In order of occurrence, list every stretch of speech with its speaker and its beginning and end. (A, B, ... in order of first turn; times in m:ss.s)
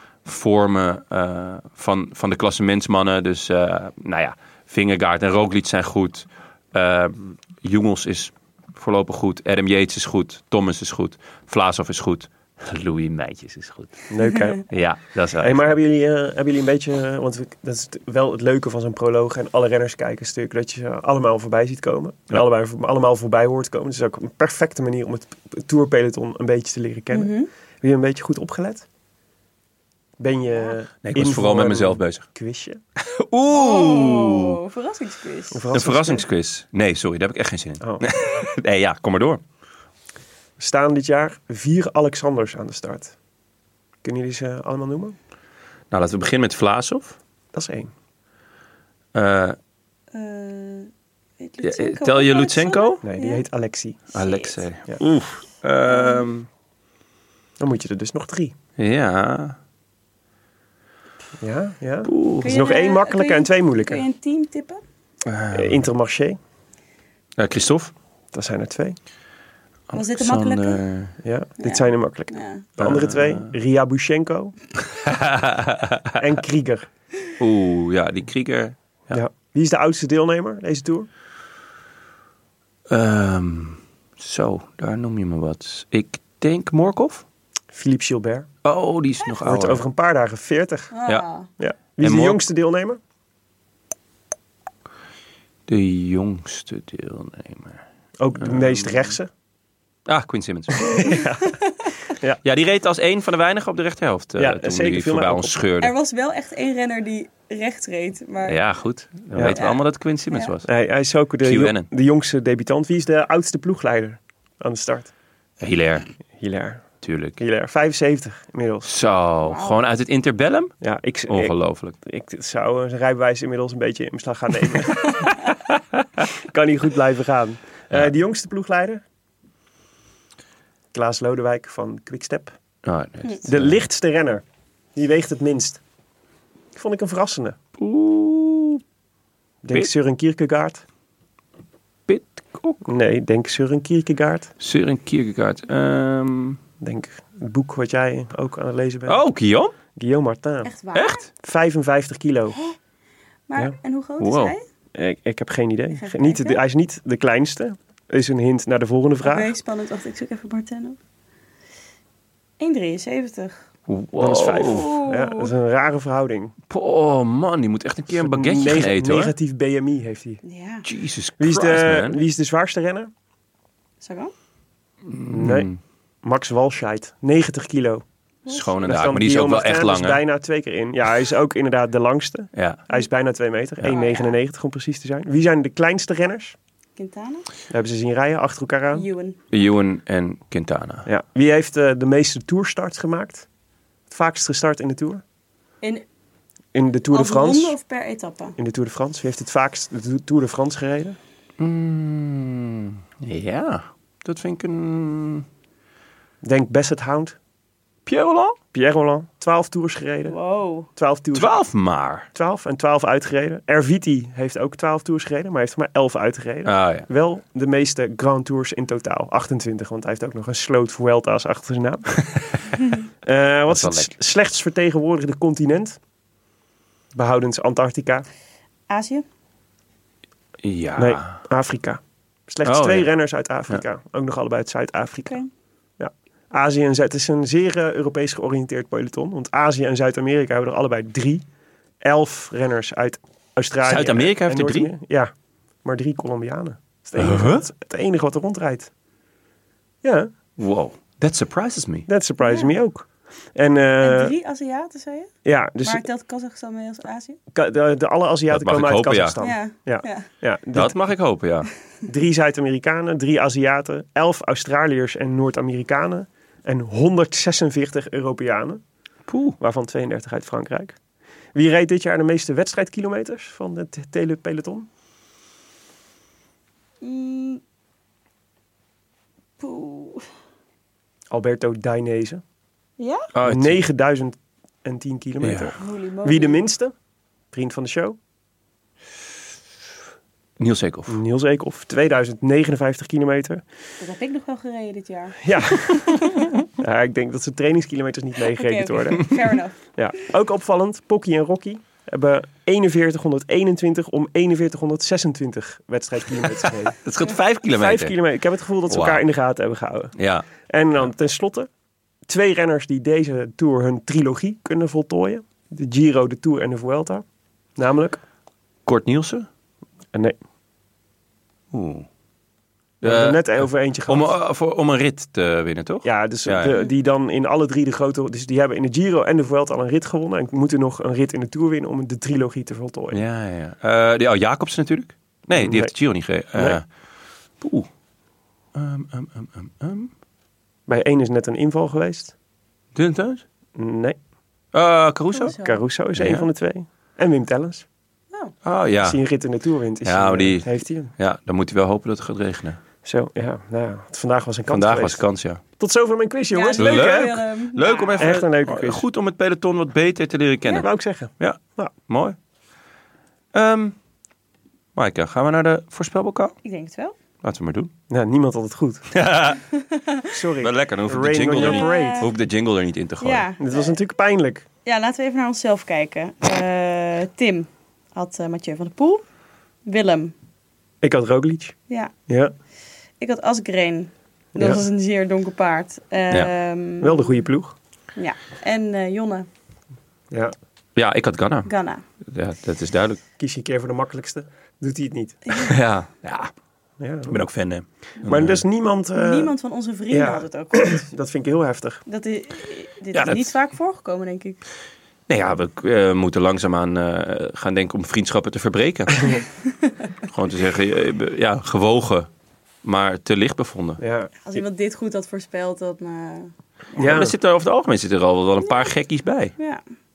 0:00.2-0:14.1 A
0:14.1-0:14.6 B
0:14.7-0:15.7 A
0:15.4-0:28.8 B
0:27.1-0:27.5 C
0:30.2-0:32.8 B
0:31.0-0:32.3 A
0:33.0-0:34.6 A
0:33.5-0:35.7 C
0:35.5-0:36.2 B
0:35.7-0:39.4 A
0:40.6-0:43.1 B
0:44.0-0:45.2 B
0:45.9-0:47.2 A
0:47.5-0:47.9 B
0:49.1-0:49.6 A
0:50.1-0:53.4 C
0:51.6-0:53.0 A
0:53.0-0:54.1 B
0:54.1-0:54.6 C
0:54.1-0:56.5 A
0:55.8-0:56.2 C
0:57.6-0:58.5 B
0:58.8-0:59.6 A
1:01.4-1:04.0 B
1:02.0-1:02.5 A
1:02.4-1:04.8 C
1:05.2-1:05.8 A
1:05.5-1:06.4 B
1:07.4-1:07.9 A
1:08.3-1:09.0 B
1:09.9-1:11.1 A
1:09.9-1:10.8 C
1:11.2-1:14.5 B
1:11.6-1:12.7 C
1:12.8-1:13.5 A
1:14.9-1:16.2 A
1:16.2-1:16.9 B
1:17.4-1:19.2 A
1:19.1-1:21.1 B
1:22.9-1:27.2 A
1:27.7-1:28.5 B
1:28.6-1:29.8 A
1:29.4-1:30.9 B
1:30.9-1:31.5 C
1:31.6-1:33.0 B
1:32.0-1:32.4 A
1:35.7-1:37.8 A
1:38.2-1:39.3 B
1:38.4-1:39.0 A
1:40.1-1:41.1 A
1:40.8-1:41.5 B
1:42.1-1:42.4 B
1:42.4-1:45.9 A
1:44.4-1:45.5 B
1:45.8-1:48.6 C
1:48.4-1:50.7 A
1:49.3-1:49.6 B
1:49.4-1:49.8 C
1:50.6-1:55.1 B
1:51.4-1:51.9 A
1:55.6-1:56.1 A
1:56.4-1:56.8 B
1:57.0-1:57.4 A
1:57.4-1:58.9 B
1:58.8-2:00.7 A
1:59.4-1:59.8 C
2:00.8-2:05.3 B
2:01.3-2:02.0 A
2:06.3-2:09.0 B
2:10.9-2:12.6 B
2:12.8-2:13.7 A
2:13.4-2:14.4 B
2:14.9-2:15.8 B
2:16.7-2:17.6 B
2:17.8-2:18.8 A
2:19.6-2:20.8 B
2:22.1-2:22.8 A
2:22.8-2:24.5 B
2:24.6-2:26.6 A
2:26.8-2:29.2 B
2:29.1-2:29.7 A
2:29.9-2:30.7 B
2:30.6-2:31.2 C
2:30.9-2:31.2 A
2:31.3-2:32.6 B
2:33.5-2:34.6 C
2:34.2-2:34.5 A
2:34.9-2:39.5 B
2:35.9-2:36.6 C
2:39.2-2:41.0 C
2:42.6-2:43.6 C
2:43.9-2:44.9 A
2:44.2-2:46.5 B
2:44.6-2:45.5 C
2:46.7-2:49.3 A
2:48.1-2:50.4 B
2:50.4-2:50.8 C
2:50.8-2:52.2 A
2:51.4-2:53.1 B
2:54.0-2:54.3 C
2:55.0-2:55.8 A
2:55.3-2:55.7 B
2:56.2-2:58.0 B
2:58.4-2:58.8 C
2:58.5-3:00.2 A
2:58.8-3:06.6 B
3:02.6-3:02.8 A
3:03.8-3:04.3 C
3:07.0-3:07.4 C
3:07.7-3:09.1 B
3:08.9-3:09.4 C
3:09.5-3:11.1 A
3:11.0-3:13.5 B
3:14.1-3:15.2 B
3:16.7-3:17.8 B
3:17.1-3:18.6 C
3:18.6-3:21.2 B
3:21.6-3:25.4 A
3:26.4-3:27.4 B
3:28.0-3:28.6 A
3:28.7-3:30.4 B
3:30.3-3:30.9 C
3:30.9-3:31.5 B
3:31.3-3:32.3 A
3:32.3-3:42.2 B
3:36.6-3:37.1 A
3:43.2-3:46.0 B
3:43.7-3:44.1 A
3:47.1-3:48.2 B
3:48.9-3:49.2 C
3:50.6-3:51.4 A
3:51.0-3:55.4 B
3:52.6-3:53.1 A
3:56.0-4:01.4 B
4:02.0-4:05.3 B
4:03.8-4:04.9 A
4:05.8-4:08.9 B
4:07.2-4:07.6 A
4:10.0-4:10.3 B
4:10.6-4:12.1 A
4:12.1-4:14.3 B
4:12.4-4:12.7 C
4:14.0-4:17.4 C
4:15.4-4:16.0 B
4:17.5-4:20.9 B
4:18.5-4:19.4 A
4:19.4-4:20.3 C
4:20.7-4:21.7 A
4:22.0-4:28.8 B
4:29.3-4:29.6 A
4:29.6-4:31.0 B
4:31.5-4:34.9 B
4:37.0-4:37.6 C
4:39.6-4:40.2 C
4:41.3-4:42.4 B
4:43.0-4:43.3 C
4:43.3-4:43.8 A
4:43.4-4:46.9 B
4:45.4-4:45.7 A
4:45.8-4:46.6 C
4:47.5-4:48.2 B
4:50.6-4:51.2 A
4:51.1-4:53.6 B
4:54.0-4:56.5 C
4:55.4-4:56.2 B
4:56.8-4:59.3 B
4:58.5-4:59.8 C
4:59.9-5:07.0 B
5:07.0-5:08.2 A
5:07.7-5:10.1 B
5:08.9-5:09.2 A
5:10.2-5:10.4 A
5:10.6-5:11.7 B
5:12.2-5:17.2 B
5:17.8-5:18.2 B
5:18.8-5:19.5 A
5:20.1-5:20.4 B
5:21.7-5:22.1 A
5:23.0-5:24.3 B
5:23.0-5:26.8 A
5:26.0-5:33.2 B
5:33.1-5:36.8 A
5:35.5-5:35.9 B
5:36.5-5:36.8 B
5:37.6-5:37.9 A
5:38.7-5:40.1 A
5:40.9-5:42.3 B
5:42.9-5:43.4 A
5:43.8-5:44.2 B
5:44.7-5:45.6 A
5:45.3-5:45.8 C
5:45.5-5:47.8 B
5:46.2-5:46.5 A
5:48.6-5:49.2 A
5:49.0-5:51.1 B
5:50.0-5:52.8 A
5:53.0-5:55.2 B
5:54.7-5:55.6 A
5:55.8-5:57.4 B
5:56.5-5:58.3 C
5:56.8-6:02.4 A
5:58.2-5:59.1 B
6:00.7-6:01.9 B
6:03.5-6:03.9 A
6:04.9-6:06.6 A
6:06.6-6:07.1 C
6:07.4-6:07.9 A
6:08.1-6:09.1 B
6:09.1-6:09.6 A
6:09.8-6:10.3 C
6:10.3-6:12.3 B
6:10.6-6:13.5 A
6:11.5-6:12.3 C
6:13.2-6:13.9 C
6:13.6-6:14.6 B
6:14.8-6:19.2 C
6:19.8-6:20.3 C
6:21.0-6:21.8 B
6:22.3-6:22.5 B
6:23.2-6:27.3 C
6:24.5-6:24.8 B
6:27.0-6:27.7 B
6:28.2-6:29.5 C
6:30.3-6:30.6 B
6:31.0-6:31.7 A
6:31.6-6:32.0 C
6:32.2-6:33.2 A
6:33.4-6:35.5 B
6:35.5-6:35.7 C
6:35.5-6:36.5 A
6:37.0-6:37.4 B
6:37.3-6:38.6 A
6:38.2-6:39.5 B
6:39.2-6:41.0 C
6:40.1-6:42.0 B
6:42.0-6:44.6 C
6:43.1-6:43.5 A
6:45.3-6:49.4 A
6:50.2-6:52.3 A
6:52.8-6:54.0 A
6:54.0-6:54.6 B
6:54.4-6:56.5 C
6:57.0-6:57.3 B
6:57.0-6:59.5 A